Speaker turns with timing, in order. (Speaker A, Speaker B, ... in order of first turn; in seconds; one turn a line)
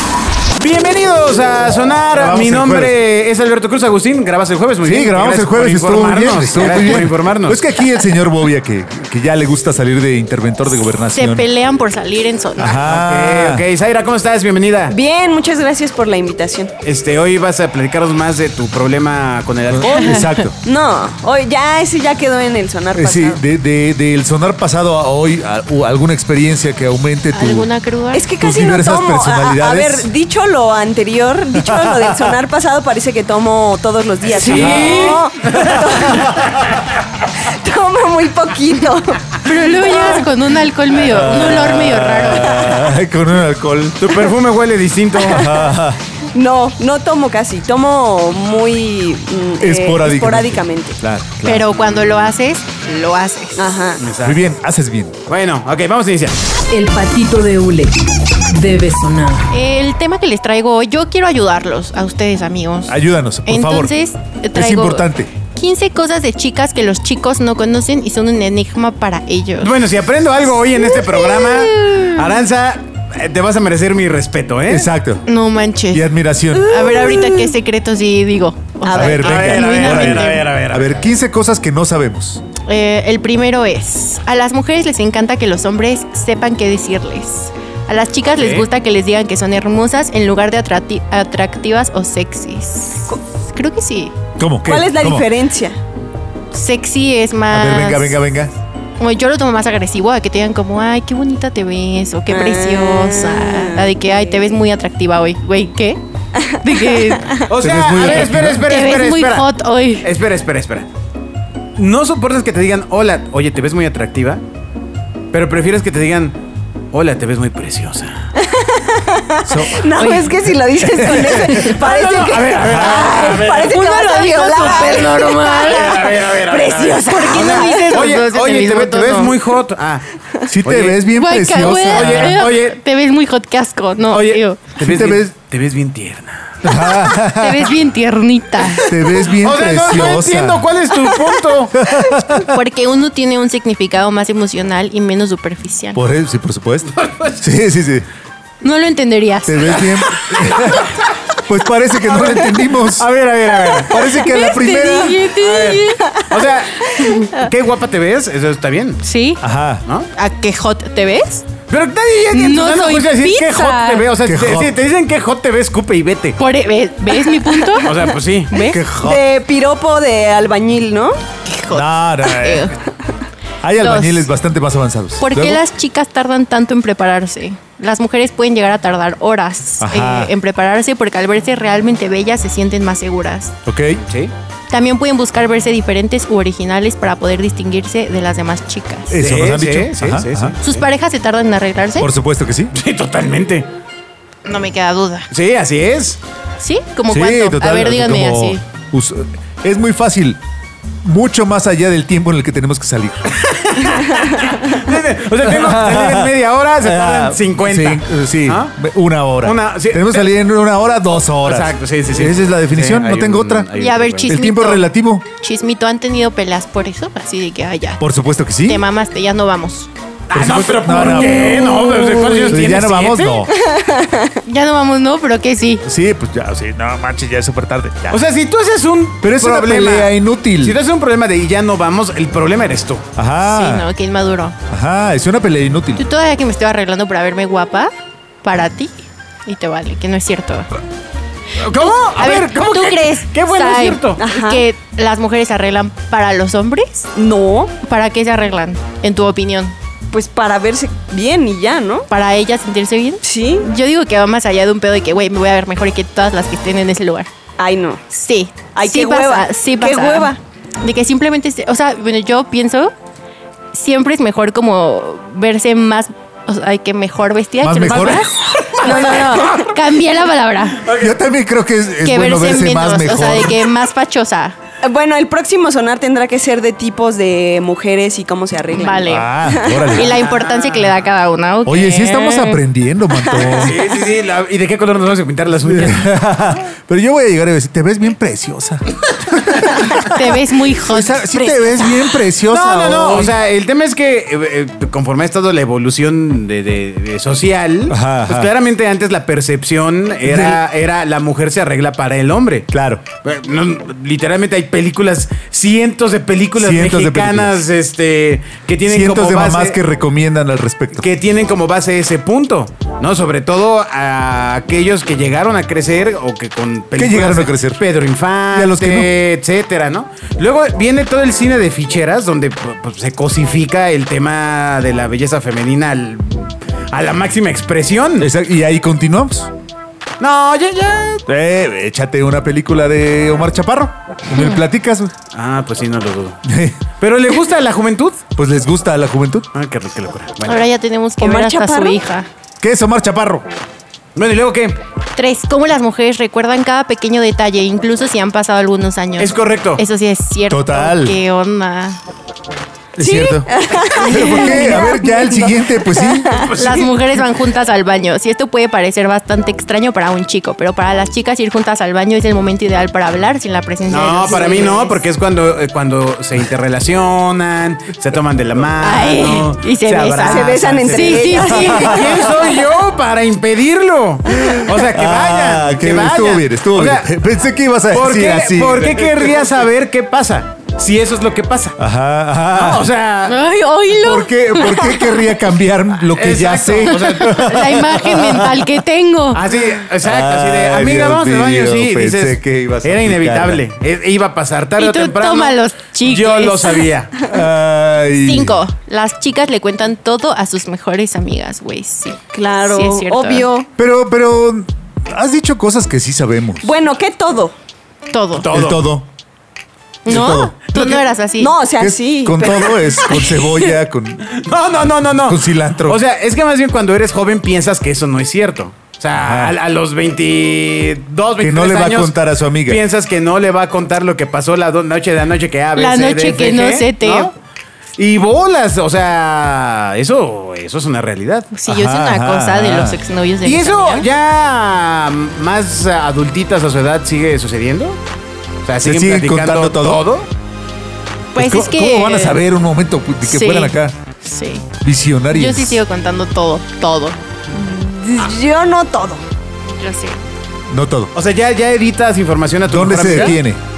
Speaker A: 0.6-7.6
Speaker B: 2.1-2.9
Speaker B: 4.8-11.4
Speaker C: 11.1-12.8
Speaker B: 12.6-13.6
Speaker A: 12.8-15.0
Speaker D: 14.9-16.7
Speaker A: 16.8-20.3
Speaker B: 19.7-20.5
Speaker C: 19.8-20.5
Speaker D: 20.6-23.4
Speaker B: 22.9-27.7
Speaker C: 27.3-28.3
Speaker D: 28.1-36.4
Speaker B: 28.4-30.1
Speaker B: 31.5-32.3
Speaker A: 34.3-36.4
Speaker B: 34.5-35.1
Speaker D: 37.4-40.2
Speaker C: 39.4-42.6
Speaker B: 41.0-44.1
Speaker D: 42.3-42.9
Speaker A: 44.0-45.5
Speaker B: 45.2-46.0
Speaker D: 46.3-51.0
Speaker B: 49.6-51.6
Speaker C: 51.4-53.8
Speaker D: 53.5-54.0
Speaker A: 54.0-54.4
Speaker B: 54.2-55.2
Speaker A: 55.3-56.4
Speaker E: 56.7-59.5
Speaker C: 59.5-69.7
Speaker B: 62.9-63.9
Speaker B: 64.5-65.3
Speaker A: 69.6-74.9
Speaker D: 70.8-72.0
Speaker B: 74.7-75.2
Speaker C: 75.2-80.5
Speaker B: 75.9-76.9
Speaker D: 76.8-77.5
Speaker D: 78.8-79.1
Speaker B: 78.9-82.4
Speaker A: 79.1-81.1
Speaker C: 82.6-94.1
Speaker A: 88.3-88.7
Speaker B: 94.4-95.3
Speaker D: 94.6-95.8
Speaker C: 96.5-98.3
Speaker B: 97.5-98.5
Speaker C: 99.0-107.4
Speaker D: 102.3-104.5
Speaker A: 107.5-109.5
Speaker B: 107.6-108.6
Speaker C: 108.0-110.1
Speaker A: 110.0-110.9
Speaker A: 111.8-114.4
Speaker A: 115.3-116.4
Speaker A: 116.9-118.2
Speaker D: 118.4-128.0
Speaker B: 119.5-119.9
Speaker C: 120.0-120.5
Speaker B: 120.8-121.7
Speaker C: 121.1-121.8
Speaker A: 121.6-123.8
Speaker B: 122.6-123.5
Speaker C: 123.5-126.1
Speaker A: 125.6-130.1
Speaker C: 126.8-129.4
Speaker B: 130.5-132.4
Speaker A: 130.6-131.0
Speaker C: 131.2-134.6
Speaker A: 131.6-132.8
Speaker A: 134.1-136.5
Speaker B: 134.8-135.3
Speaker B: 136.6-137.7
Speaker C: 137.2-138.9
Speaker B: 138.7-140.7
Speaker A: 139.1-141.8
Speaker B: 141.7-142.5
Speaker C: 142.3-146.0
Speaker B: 145.9-148.1
Speaker A: 147.0-147.3
Speaker C: 148.6-149.8
Speaker B: 149.4-153.1
Speaker A: 152.1-154.1
Speaker B: 153.8-155.3
Speaker C: 154.1-156.1
Speaker A: 155.3-159.0
Speaker C: 159.0-159.4
Speaker B: 159.4-159.8
Speaker C: 160.2-161.4
Speaker A: 161.7-166.4
Speaker C: 162.3-164.1
Speaker B: 164.2-164.8
Speaker C: 166.4-168.0
Speaker D: 167.1-168.0
Speaker A: 167.8-168.6
Speaker C: 168.5-168.8
Speaker B: 168.6-169.2
Speaker D: 169.0-171.2
Speaker C: 171.4-172.8
Speaker B: 171.7-172.8
Speaker B: 173.6-175.6
Speaker C: 173.8-174.3
Speaker C: 175.2-183.5
Speaker B: 179.8-180.3
Speaker B: 183.7-184.0
Speaker A: 184.0-184.3
Speaker C: 184.7-189.1
Speaker B: 189.1-190.6
Speaker A: 189.2-190.8
Speaker C: 190.6-192.1
Speaker B: 192.0-192.7
Speaker A: 192.7-193.7
Speaker C: 194.4-195.3
Speaker A: 195.3-196.2
Speaker C: 196.6-198.6
Speaker B: 197.1-200.4
Speaker B: 201.0-203.3
Speaker A: 203.3-208.7
Speaker B: 205.4-213.7
Speaker A: 209.4-210.3
Speaker A: 211.4-214.3
Speaker C: 213.8-218.0
Speaker B: 214.2-215.2
Speaker B: 218.0-218.8
Speaker C: 218.6-219.9
Speaker A: 220.3-223.4
Speaker B: 220.3-221.9
Speaker C: 221.0-222.6
Speaker B: 222.4-223.5
Speaker D: 223.5-224.4
Speaker C: 224.4-225.8
Speaker B: 225.8-228.2
Speaker A: 228.1-233.0
Speaker B: 229.2-230.8
Speaker B: 233.1-233.9
Speaker C: 233.4-234.6
Speaker B: 234.7-236.0
Speaker C: 235.9-237.9
Speaker C: 238.4-238.9
Speaker C: 239.4-240.7
Speaker A: 241.6-244.2
Speaker C: 241.7-247.1
Speaker D: 244.2-244.6
Speaker D: 247.1-247.7
Speaker C: 247.8-249.7
Speaker D: 250.1-252.1
Speaker C: 252.1-257.3
Speaker D: 253.2-253.7
Speaker D: 257.6-258.0
Speaker C: 258.1-262.9
Speaker D: 258.7-260.4
Speaker C: 263.7-270.8
Speaker B: 267.6-268.2
Speaker A: 267.9-269.4
Speaker D: 268.8-269.6
Speaker A: 270.8-271.2
Speaker B: 271.0-273.6
Speaker C: 272.0-274.5
Speaker D: 274.8-279.9
Speaker C: 278.7-282.6
Speaker B: 279.1-280.2
Speaker A: 280.0-281.0
Speaker B: 281.6-283.8
Speaker D: 283.3-283.6
Speaker A: 283.5-286.1
Speaker B: 285.6-288.8
Speaker B: 289.5-293.3
Speaker C: 289.9-292.0
Speaker A: 292.5-302.7
Speaker B: 297.9-298.5
Speaker B: 300.2-300.6
Speaker B: 302.7-303.0
Speaker A: 303.2-309.8
Speaker B: 306.6-307.6
Speaker B: 308.9-311.1
Speaker A: 310.9-328.3
Speaker B: 316.9-317.8
Speaker B: 318.5-319.1
Speaker B: 328.2-329.5
Speaker A: 330.2-331.2
Speaker B: 331.2-335.1
Speaker C: 334.4-334.6
Speaker A: 335.3-336.4
Speaker B: 336.4-336.8
Speaker A: 337.0-338.2
Speaker B: 338.3-339.5
Speaker A: 339.5-340.7
Speaker C: 340.4-342.3
Speaker D: 341.2-342.0
Speaker B: 342.6-343.4
Speaker A: 344.1-344.8
Speaker C: 345.1-352.0
Speaker A: 349.2-349.8
Speaker B: 350.5-351.2
Speaker B: 353.0-356.4
Speaker D: 353.0-356.7
Speaker C: 354.0-354.9
Speaker A: 356.3-357.1
Speaker C: 356.5-365.0
Speaker A: 363.9-377.1
Speaker C: 368.8-372.2
Speaker D: 370.2-372.2
Speaker B: 371.7-372.2
Speaker B: 374.4-379.4
Speaker A: 377.9-381.8
Speaker B: 381.8-382.9
Speaker A: 382.5-383.4
Speaker C: 383.2-385.3
Speaker B: 383.9-388.6
Speaker A: 386.1-387.7
Speaker C: 386.9-389.4
Speaker A: 389.3-397.2
Speaker B: 390.0-393.6
Speaker C: 394.8-396.9
Speaker B: 397.2-398.6
Speaker C: 398.1-403.5
Speaker D: 402.3-403.7
Speaker B: 403.8-406.7
Speaker D: 406.6-407.6
Speaker C: 408.1-408.5
Speaker A: 408.3-408.9
Speaker B: 408.4-409.1
Speaker B: 410.1-410.5
Speaker C: 410.1-411.5
Speaker A: 410.1-411.0
Speaker D: 411.4-413.3
Speaker B: 411.8-414.3
Speaker A: 412.5-412.8
Speaker A: 414.3-427.3
Speaker B: 415.1-416.0
Speaker B: 419.2-419.5
Speaker B: 421.4-422.8
Speaker C: 425.8-427.3
Speaker A: 428.0-431.5
Speaker C: 431.5-434.1
Speaker B: 431.7-433.0
Speaker A: 433.4-438.0
Speaker A: 438.6-440.3
Speaker B: 438.8-440.0
Speaker C: 441.3-442.4
Speaker B: 441.3-443.9
Speaker C: 443.2-444.6
Speaker B: 444.8-445.8
Speaker C: 445.3-447.2
Speaker D: 447.5-449.2
Speaker C: 449.7-450.2
Speaker B: 450.7-451.1
Speaker A: 451.1-453.4
Speaker B: 452.7-453.6